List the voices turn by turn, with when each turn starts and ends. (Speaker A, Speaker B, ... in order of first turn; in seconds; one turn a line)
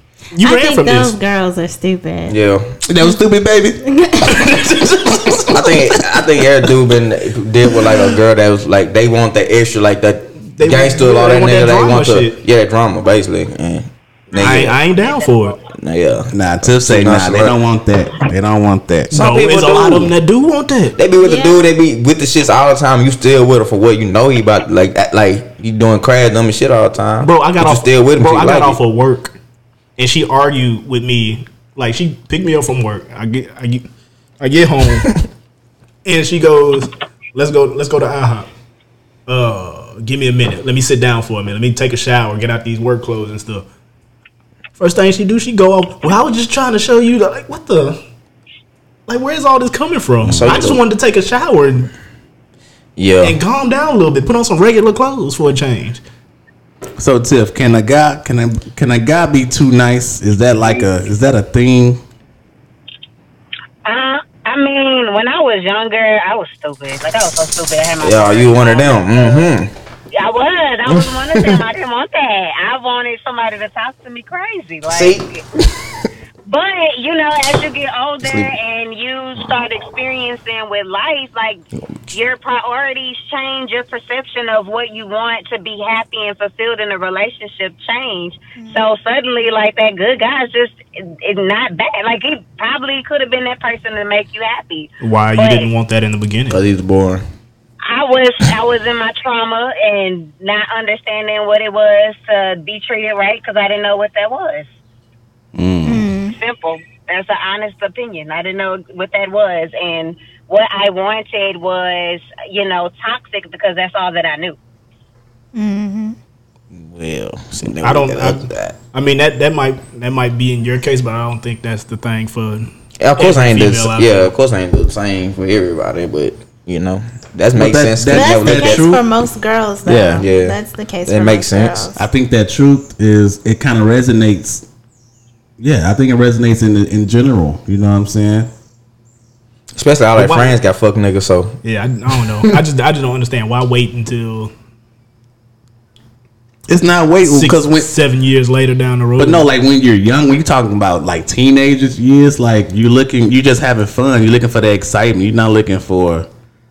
Speaker A: 0.3-1.2
Speaker B: 0.4-2.4
Speaker C: 2.3-2.8
Speaker D: 2.8-3.8
Speaker B: 3.8-4.6
Speaker A: 4.2-6.0
Speaker C: 5.5-14.8
Speaker A: 10.6-12.4
Speaker A: 14.3-15.6
Speaker E: 15.0-15.5
Speaker C: 15.7-17.6
Speaker D: 16.3-19.1
Speaker A: 19.1-21.0
Speaker C: 19.1-20.1
Speaker C: 21.0-28.8
Speaker B: 21.2-21.7
Speaker A: 27.2-29.4
Speaker A: 30.0-33.9
Speaker A: 34.4-35.1
Speaker A: 36.0-38.5
Speaker A: 39.3-43.6
Speaker A: 44.8-48.0
Speaker A: 49.1-51.9
Speaker D: 50.2-50.6
Speaker C: 50.3-50.8
Speaker C: 53.0-53.4
Speaker A: 53.2-56.0
Speaker D: 57.0-62.0
Speaker E: 63.9-69.5
Speaker C: 68.0-69.7
Speaker E: 70.1-75.4
Speaker C: 70.9-71.6
Speaker C: 74.9-75.9
Speaker E: 76.5-95.7
Speaker C: 78.2-78.5
Speaker A: 95.0-96.6
Speaker C: 96.5-97.2
Speaker E: 97.8-104.7
Speaker D: 105.5-106.1
Speaker B: 105.8-106.4
Speaker E: 106.3-114.6
Speaker B: 115.5-116.2
Speaker C: 116.7-118.8
Speaker A: 117.8-124.3
Speaker C: 123.0-128.9
Speaker D: 127.5-129.0
Speaker B: 128.1-132.0
Speaker D: 129.9-130.3
Speaker C: 130.2-131.9
Speaker D: 132.0-134.7
Speaker D: 135.6-138.5
Speaker C: 139.8-141.6
Speaker A: 140.2-140.6
Speaker A: 141.6-144.5
Speaker D: 146.7-147.9
Speaker A: 147.2-149.5
Speaker D: 149.2-156.3